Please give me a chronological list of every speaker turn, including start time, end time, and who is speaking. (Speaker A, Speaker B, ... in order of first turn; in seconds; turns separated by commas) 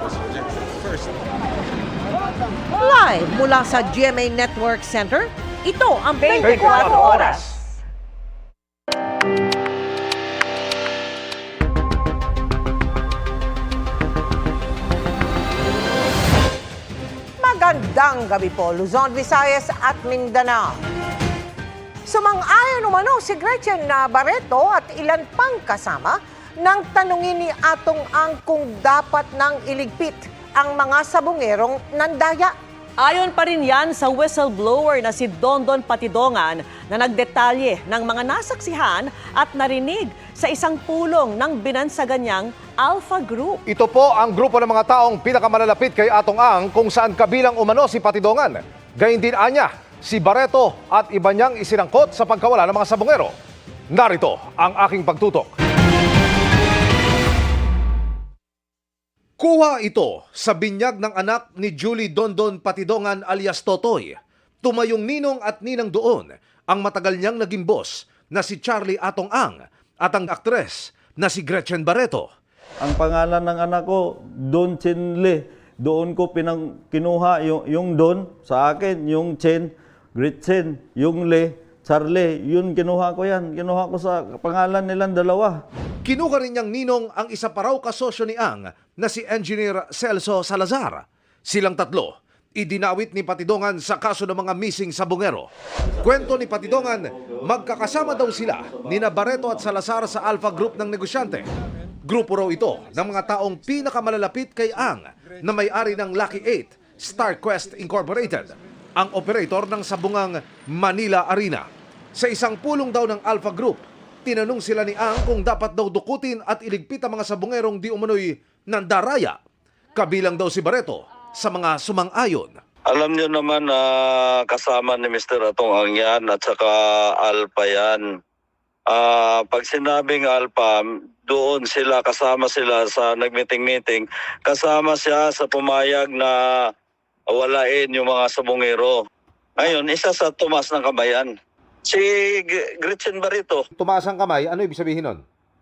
Speaker A: 2.8-7.7, Speaker B: 6.2-7.4, Speaker C: 6.4-6.9, Speaker A: 17.4-20.8, Speaker A: 22.1-32.5, Speaker B: 33.0-43.6, Speaker C: 43.7-53.3, Speaker C: 53.9-55.5, Speaker C: 59.4-72.2, Speaker D: 72.8-85.6, Speaker C: 86.0-95.5, Speaker C: 96.0-101.5, Speaker C: 102.0-119.3, Speaker C: 120.0-122.5, Speaker E: 122.9-128.1, Speaker E: 128.9-136.7, Speaker E: 137.3-139.0, Speaker E: 139.6-141.3, Speaker E: 141.8-143.6, Speaker C: 143.8-145.2